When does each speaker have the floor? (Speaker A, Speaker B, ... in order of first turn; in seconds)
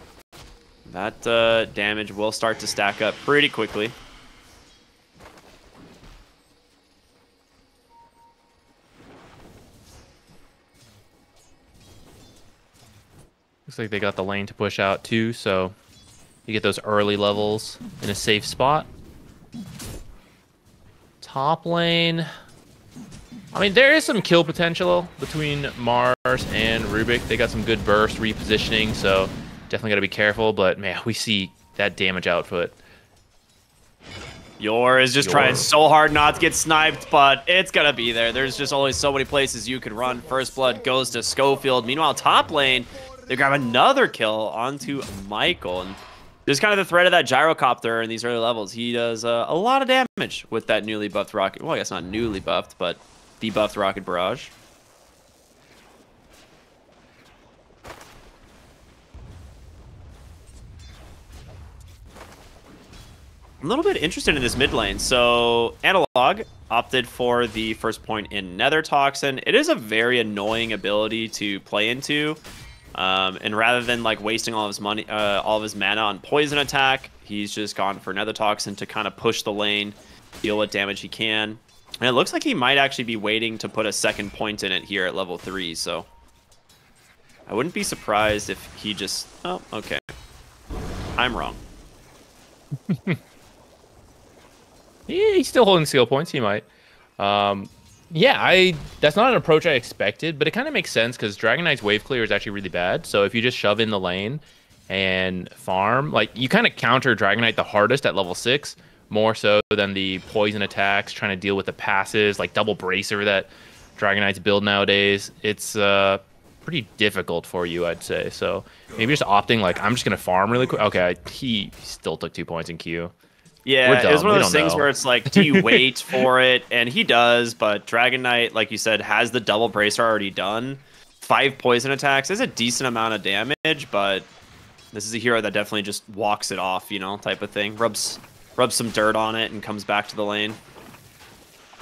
Speaker A: 0.8-4.0, 34.6-54.5, 63.6-72.4, 72.9-86.1, 87.5-90.1, 91.2-91.6, 123.7-134.3, 134.9-140.6
Speaker B: 13.7-15.8, 16.5-18.9, 21.2-22.3, 23.5-32.8, 35.2-35.7, 92.9-93.2, 95.1-96.7, 97.2-123.1, 123.8-126.2